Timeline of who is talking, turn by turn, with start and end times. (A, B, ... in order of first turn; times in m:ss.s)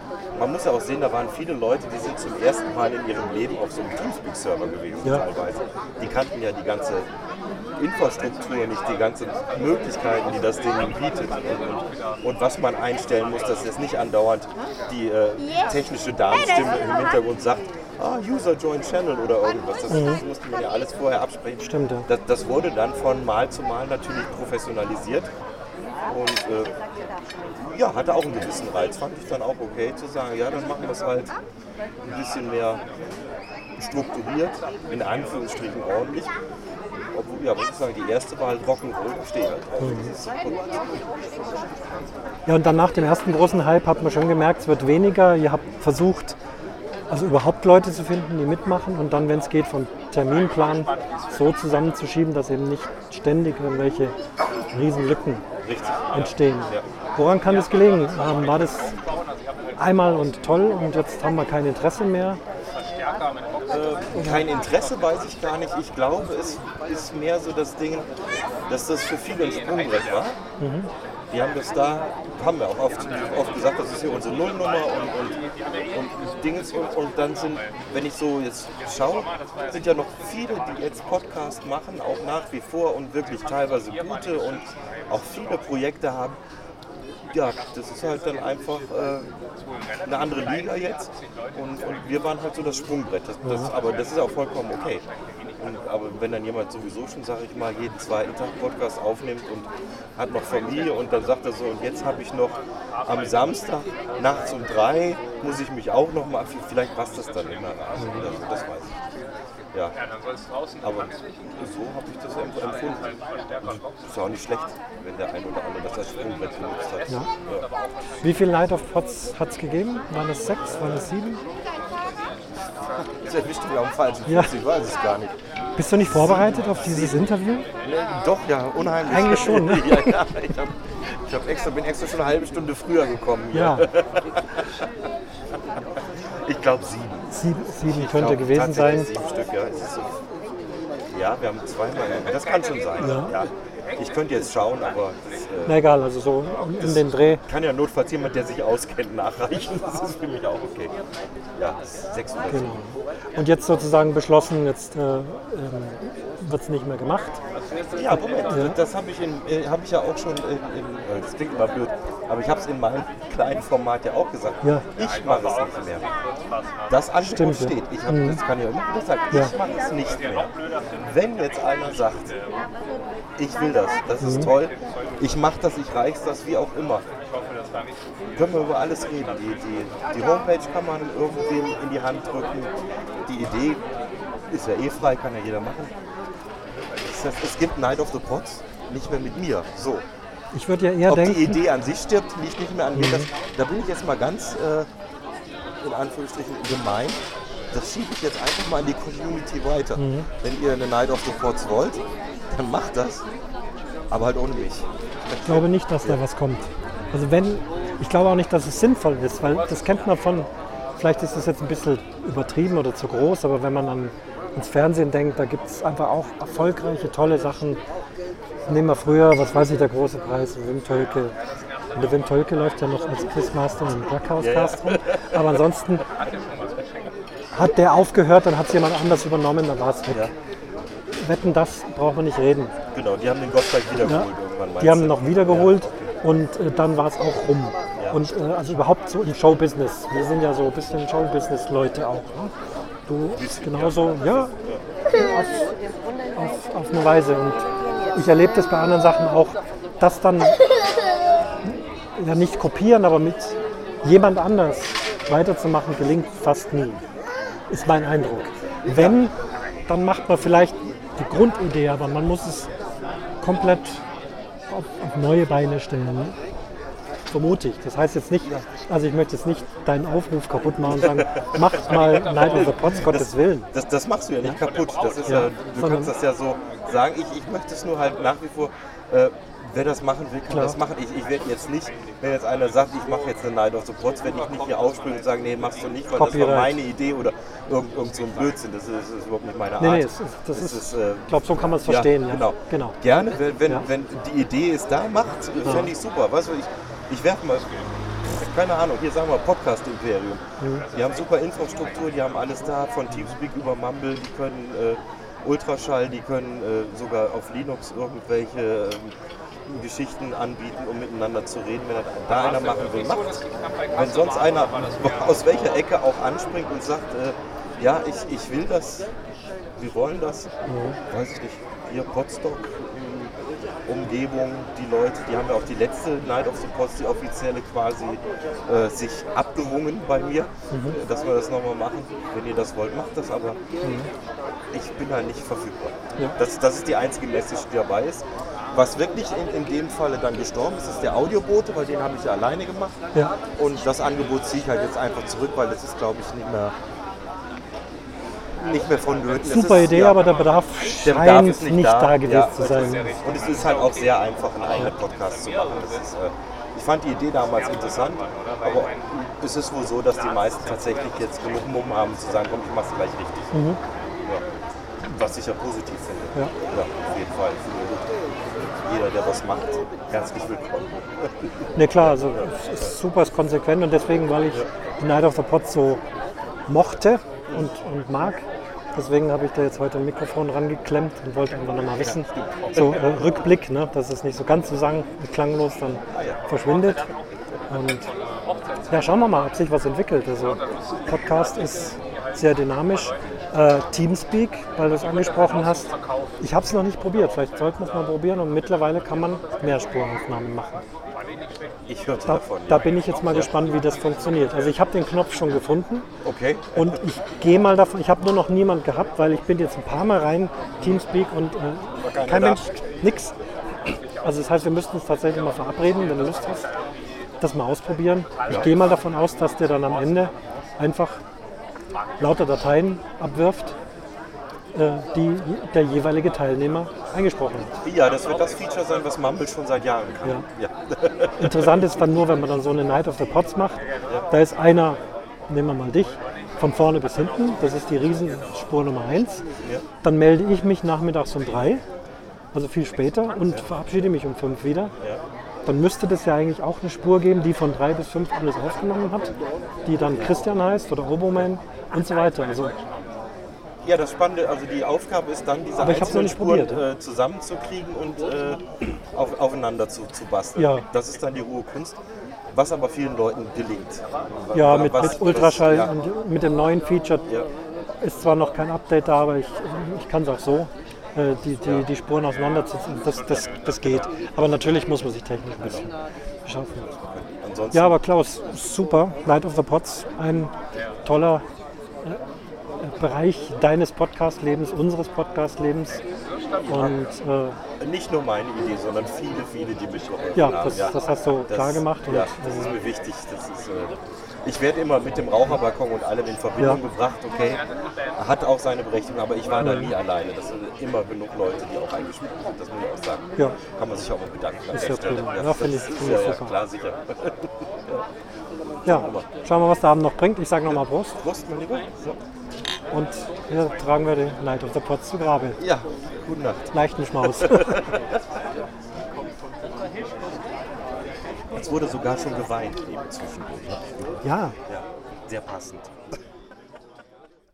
0:00.3-0:07.1 A
0:07.8-0:25.3 A
0:19.9-0:20.2 B
0:21.6-0:22.1 B
0:26.1-0:26.7 A
0:27.6-0:31.3 A
0:32.0-0:32.8 A
0:33.8-0:36.3 A
0:37.1-0:42.0 A
0:39.8-0:40.1 B
0:42.4-0:46.4 B
0:47.1-0:54.2 B
0:54.7-0:55.4 B
0:55.6-0:56.8 A
0:56.1-0:59.0 B
0:59.8-1:02.4 B
1:03.6-1:08.1 A
1:04.1-1:04.4 B
1:08.7-1:10.4 A
1:10.6-1:10.9 B
1:11.3-1:15.4 A
1:15.9-1:26.4 A
1:27.2-1:29.3 A
1:30.0-1:35.0 A
1:33.4-1:33.7 B
1:35.6-1:49.0 A
1:48.0-1:48.2 B
1:50.8-1:57.7 A
1:58.2-2:01.4 B
2:03.0-2:05.4 A
2:04.3-2:04.5 B
2:05.8-2:07.6 B
2:06.0-2:07.2 A
2:07.8-2:14.9 A
2:09.1-2:10.2 B
2:13.5-2:13.9 B
2:16.4-2:20.2 A
2:17.3-2:19.1 B
2:21.1-2:25.9 A
2:23.0-2:23.3 B
2:25.6-2:27.4 B
2:26.8-2:30.9 A
2:31.6-2:32.8 A
2:32.5-2:37.4 B
2:37.9-2:46.0 A
2:38.5-2:38.8 B
2:46.9-2:52.3 A
2:47.2-2:48.4 B
2:53.4-2:57.0 A
2:54.2-2:54.5 B
2:58.3-3:02.7 A
3:03.2-3:03.8 A
3:04.5-3:05.9 A
3:07.0-3:10.0 A
3:10.5-3:11.6 B
3:11.0-3:14.9 A
3:13.0-3:13.3 B
3:15.8-3:23.2 A
3:20.0-3:20.3 B
3:24.1-3:26.2 A
3:25.4-3:37.8 B
3:38.7-3:41.4 B
3:41.9-3:46.0 B
3:44.4-3:45.6 A
3:47.5-3:50.3 B
3:50.1-3:50.3 A
3:51.2-3:52.7 B
3:52.9-3:56.1 A
3:54.0-3:54.3 B
3:54.8-4:02.5 B
3:58.0-3:58.2 A
4:03.1-4:04.5 B
4:03.3-4:04.8 A
4:05.1-4:05.7 B
4:06.3-4:10.6 B
4:12.2-4:17.0 B
4:17.7-4:19.3 B
4:18.9-4:19.2 A
4:19.9-4:22.7 B
4:23.4-4:24.0 B
4:24.7-4:26.4 B
4:27.3-4:33.7 B
4:31.0-5:19.1 A
4:35.3-4:36.1 B
4:40.5-4:40.8 B
4:46.2-4:46.7 B
4:49.8-4:53.0 B
4:55.6-4:55.9 B
5:00.6-5:00.8 B
5:19.8-5:20.5 A
5:20.7-5:21.0 B
5:21.1-5:23.3 A
5:23.8-5:33.6 A
5:30.7-5:31.0 B
5:33.8-5:34.1 B
5:34.7-5:43.0 A
5:43.5-5:46.7 A
5:48.6-5:50.3 A
5:49.4-5:53.2 B
5:51.0-6:03.6 A
6:03.5-6:03.8 B
6:05.0-6:12.9 A
6:11.7-6:16.0 B
6:16.7-6:27.0 B
6:22.0-6:23.4 A
6:26.1-6:26.4 A
6:27.7-6:28.1 B
6:28.9-6:40.8 B
6:41.9-6:43.5 A
6:42.3-6:46.1 B
6:46.2-6:47.0 A
6:46.7-6:53.3 B
6:52.0-6:52.8 A
6:54.2-6:56.6 B
6:57.4-7:01.2 B
7:02.2-7:03.8 B
7:04.7-7:07.8 B
7:07.8-7:12.0 A
7:11.4-7:19.4 B
7:20.0-7:21.8 B
7:22.5-7:24.9 B
7:25.6-7:29.3 B
7:29.8-7:32.8 B
7:33.8-7:42.0 A
7:35.8-7:36.8 B
7:40.6-7:40.8 B
7:42.5-7:45.9 A
7:44.5-7:47.3 B
7:48.0-7:55.9 B
7:55.6-7:55.8 A
7:56.4-7:56.9 B
7:56.9-7:58.0 A
7:57.7-8:00.5 B
8:01.0-8:01.4 B
8:02.8-8:06.0 B
8:06.6-8:06.9 A
8:06.7-8:07.6 B
8:07.8-8:17.6 A
8:10.4-8:12.8 B
8:18.2-8:28.0 A
8:19.6-8:19.9 B
8:24.7-8:26.5 B
8:28.8-8:29.2 A
8:28.8-8:31.2 B
8:30.7-8:32.2 A
8:32.9-8:35.6 B
8:35.6-8:38.2 A
8:36.7-8:37.8 B
8:41.5-8:46.2 A
8:44.2-8:44.6 B